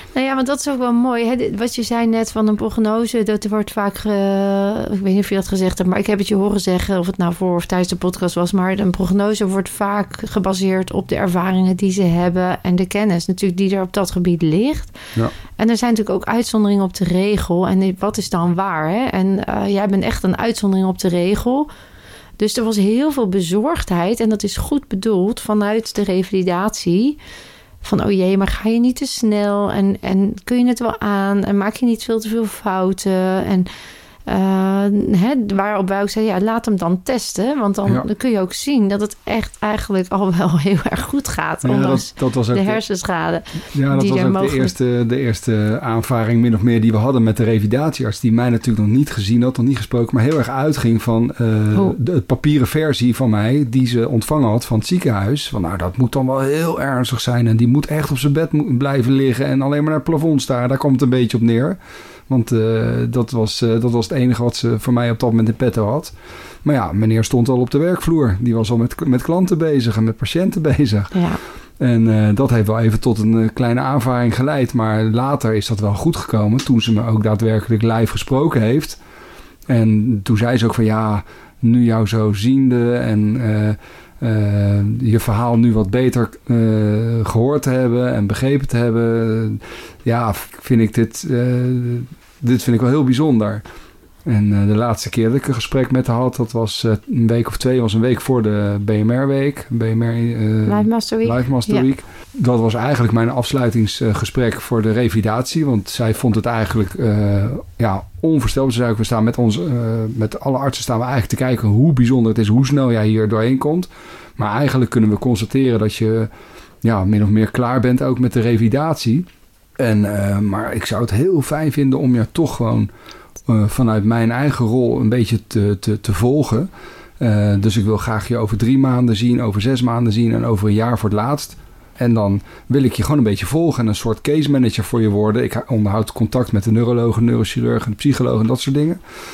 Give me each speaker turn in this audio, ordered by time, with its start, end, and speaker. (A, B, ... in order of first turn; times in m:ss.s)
0:00.1-0:14.9 A
0:15.6-0:21.7 A
0:22.4-0:27.2 A
0:27.8-0:33.7 A
0:34.3-0:44.7 A
0:41.6-0:42.8 B
0:43.7-1:01.8 B
1:02.3-1:11.2 B
1:11.1-1:11.4 A
1:11.8-1:19.0 B
1:19.7-1:33.6 B
1:34.2-1:56.3 B
1:40.6-1:41.8 A
1:56.8-1:59.3 B
1:59.8-2:02.9 B
2:03.4-2:06.7 B
2:07.2-2:19.0 B